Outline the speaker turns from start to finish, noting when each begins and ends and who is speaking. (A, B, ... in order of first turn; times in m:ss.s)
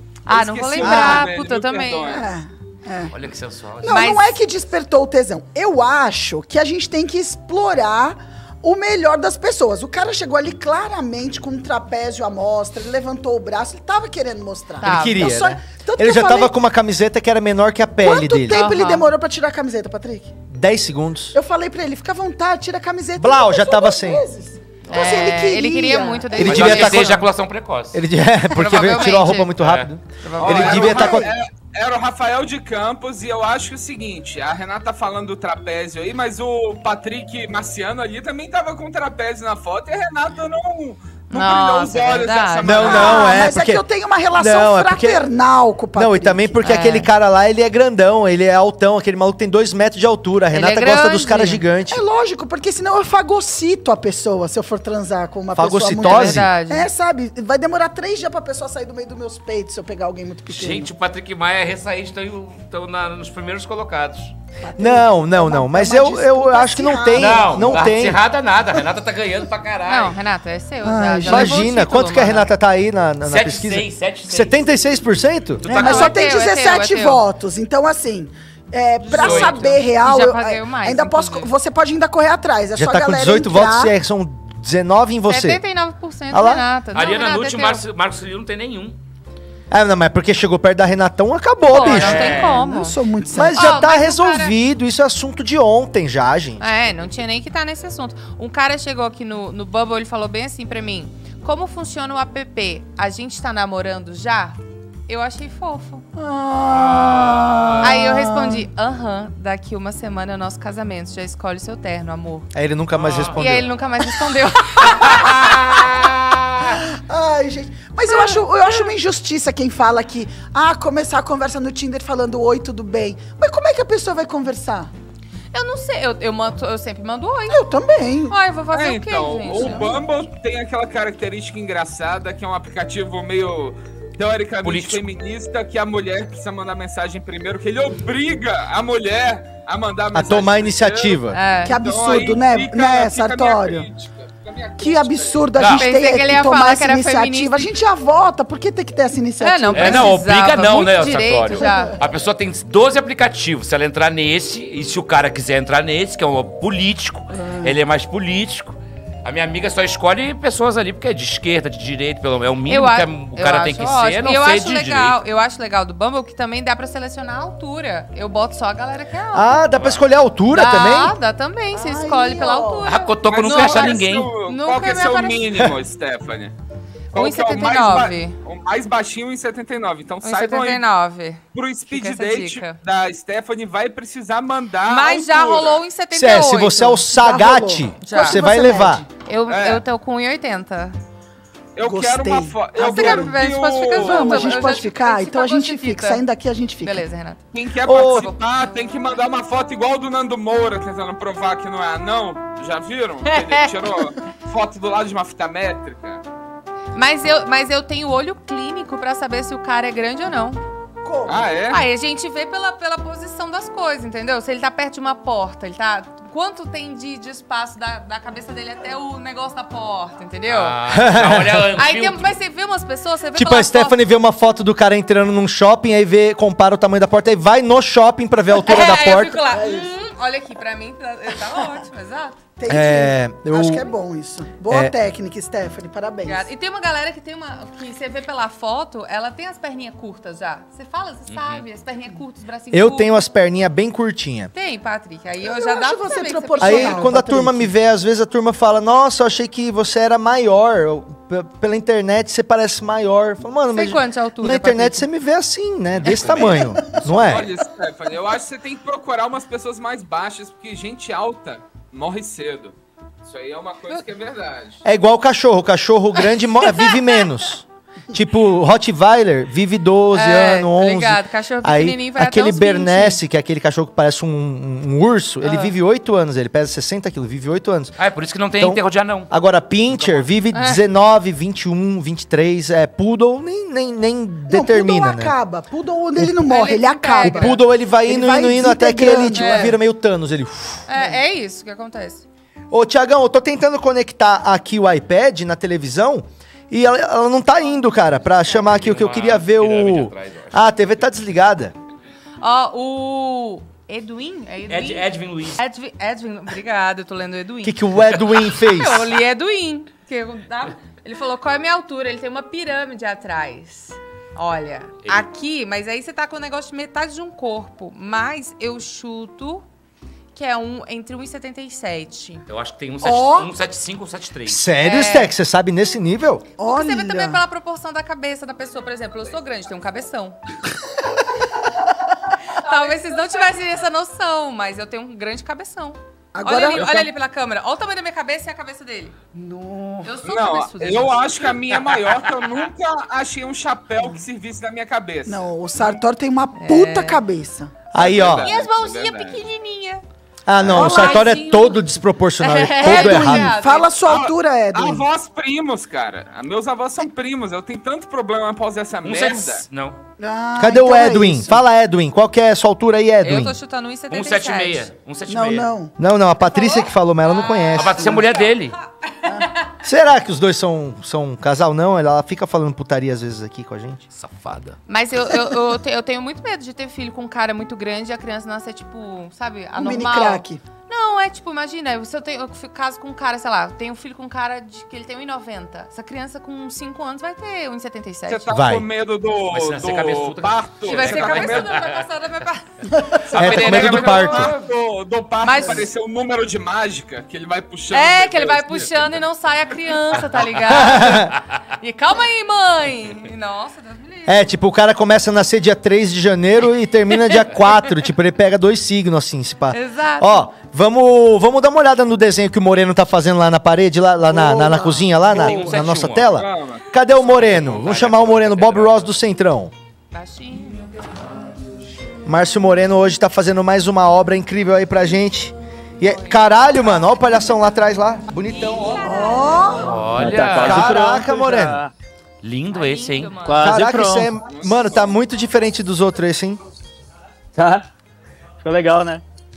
0:00.3-0:02.2 A
0:00.3-0:02.2 B
0:00.8-0:01.2 C
0:00.9-0:01.2 D
0:02.1-0:03.1 D
0:03.1-0:04.0 E
0:03.8-0:16.6 D
0:03.9-0:04.4 A
0:14.8-0:15.4 A
0:14.8-0:18.7 C
0:18.0-0:20.3 D
0:18.5-0:19.1 A
0:20.5-0:21.4 C
0:21.3-0:26.7 D
0:23.2-0:24.2 C
0:24.9-0:27.2 A
0:26.4-0:27.3 C
0:26.4-0:28.0 E
0:27.9-0:31.3 C
0:28.5-0:29.5 A
0:29.6-0:29.9 E
0:30.2-0:31.1 A
0:30.4-0:43.4 B
0:30.8-0:31.2 D
0:41.3-0:43.4 A
0:42.6-0:43.8 C
0:42.8-0:46.6 D
0:44.4-0:45.2 C
0:46.0-0:52.0 C
0:46.6-0:47.1 A
0:50.5-0:51.6 A
0:51.9-1:00.9 D
0:55.5-0:56.5 C
0:56.0-0:56.9 A
1:00.5-1:04.3 E
1:04.6-1:07.9 D
1:04.8-1:08.2 C
1:07.2-1:10.2 E
1:09.9-1:12.5 A
1:10.8-1:11.6 D
1:11.2-1:15.7 C
1:13.2-1:14.6 E
1:15.6-1:16.3 E
1:15.7-1:23.9 D
1:15.7-1:17.2 A
1:19.1-1:19.8 E
1:19.2-1:21.5 A
1:22.8-1:25.6 C
1:25.3-1:27.8 A
1:26.3-1:26.6 C
1:26.9-1:29.0 E
1:29.7-1:32.4 C
1:31.7-1:33.0 A
1:31.7-1:32.6 E
1:32.3-1:33.7 D
1:33.3-1:36.7 C
1:33.5-1:34.6 A
1:36.6-1:46.0 A
1:46.2-1:48.7 D
1:46.7-1:48.0 E
1:47.8-1:52.5 A
1:52.5-1:53.7 C
1:53.0-1:53.4 E
1:53.4-1:55.6 A
1:55.1-1:56.8 E
1:56.7-2:04.9 D
2:05.5-2:07.6 A
2:07.5-2:08.4 D
2:08.3-2:10.0 A
2:08.7-2:25.6 B
2:09.5-2:10.0 D
2:14.6-2:15.0 E
2:20.1-2:21.4 C
2:21.3-2:21.8 A
2:21.6-2:23.9 D
2:24.8-2:30.1 D
2:25.6-2:25.9 E
2:25.6-2:27.7 A
2:29.4-2:32.0 A
2:29.7-2:45.2 E
2:31.5-2:31.9 D
2:37.3-2:37.8 D
2:42.7-2:49.6 A
2:49.3-2:51.1 C
2:49.8-2:50.0 E
2:50.5-2:55.6 A
2:51.7-2:52.9 D
2:52.8-2:54.3 E
2:53.2-2:56.5 B
2:57.1-3:00.8 B
2:57.2-2:58.4 A
3:00.2-3:02.8 A
3:01.5-3:05.8 B
3:04.9-3:07.0 A
3:06.1-3:09.1 C
3:07.1-3:09.1 D
3:08.0-3:08.4 A
3:09.2-3:11.0 A
3:09.5-3:09.8 B
3:11.8-3:14.7 B
3:11.8-3:17.0 D
3:12.8-3:16.2 A
3:16.8-3:17.5 A
3:17.5-3:26.2 B
3:17.8-3:18.3 C
3:18.0-3:18.8 A
3:23.3-3:23.7 A
3:26.9-3:30.6 A
3:31.0-3:31.6 D
3:31.3-3:31.8 B
3:31.7-3:40.8 A
3:40.5-3:42.4 E
3:40.9-3:41.7 C
3:41.8-3:44.0 A
3:43.4-3:49.4 C
3:48.6-3:52.4 A
3:49.5-3:49.9 D
3:52.6-3:56.4 D
3:52.7-3:53.9 C
3:56.2-4:03.2 A
4:01.3-4:01.6 E
4:02.7-4:04.5 C
4:04.5-4:07.1 A
4:05.4-4:07.7 D
4:06.6-4:17.5 C
4:13.7-4:15.1 A
4:16.0-4:17.5 E
4:17.1-4:24.8 B
4:24.8-4:38.0 C
4:26.7-4:27.2 A
4:30.1-4:33.2 A
4:35.4-4:35.7 A
4:38.0-4:39.3 E
4:38.6-4:45.4 C
4:39.9-4:40.3 E
4:40.5-4:40.8 A
4:44.5-4:49.8 D
4:46.4-4:47.6 A
4:47.2-4:50.9 C
4:49.4-4:49.8 A
4:50.9-4:52.2 A
4:52.7-5:01.7 C
4:58.6-5:00.6 E
5:02.4-5:07.8 A
5:04.7-5:05.6 E
5:07.6-5:09.1 C
5:08.4-5:19.6 A
5:20.3-5:22.4 A
5:22.5-5:24.6 E
5:23.0-5:23.5 D
5:24.5-5:26.5 C
5:24.8-5:25.3 A
5:26.6-5:27.4 D
5:26.6-5:30.4 A
5:32.6-5:39.2 A
5:36.3-5:37.1 D
5:39.3-5:40.1 D
5:40.0-5:41.5 A
5:40.2-5:45.4 B
5:45.3-5:47.7 D
5:46.6-5:47.2 A
5:47.9-5:48.5 C
5:47.9-5:49.4 B
5:48.4-5:50.0 A
5:50.5-5:53.6 C
5:50.7-5:51.8 A
5:50.7-5:51.3 D
5:52.4-5:54.0 A
5:52.8-5:55.0 D
5:54.1-5:59.7 B
5:59.0-6:00.0 E
6:00.2-6:01.6 D
6:00.6-6:03.6 C
6:03.2-6:04.9 A
6:04.1-6:05.7 E
6:05.3-6:05.9 D
6:06.0-6:08.2 C
6:06.4-6:08.6 A
6:07.7-6:08.8 E
6:09.2-6:09.5 D
6:09.8-6:14.0 C
6:14.1-6:14.8 E
6:14.9-6:28.5 A
6:19.7-6:20.6 D
6:28.3-6:31.8 B
6:28.5-6:28.9 C
6:29.5-6:32.1 E
6:30.8-6:34.4 A
6:33.3-6:34.5 C
6:33.3-6:34.7 E
6:33.3-6:38.9 B
6:35.4-6:35.9 A
6:37.9-6:44.5 A
6:40.3-6:40.6 E
6:40.7-6:41.3 C
6:44.3-6:59.7 C
6:49.7-6:50.5 A
6:54.3-6:55.1 D
6:55.2-6:56.3 E
6:56.3-6:56.9 B
6:57.2-6:59.2 E
7:00.1-7:00.9 A
7:02.2-7:09.1 C
7:06.0-7:06.7 A
7:08.3-7:09.9 A
7:09.0-7:09.9 D
7:09.8-7:11.1 E
7:10.0-7:11.9 F
7:10.6-7:11.8 C
7:12.4-7:13.5 E
7:12.7-7:13.8 A
7:13.4-7:14.4 F
7:13.6-7:16.6 C
7:14.4-7:15.1 B
7:17.6-7:17.9 F
7:18.6-7:19.2 F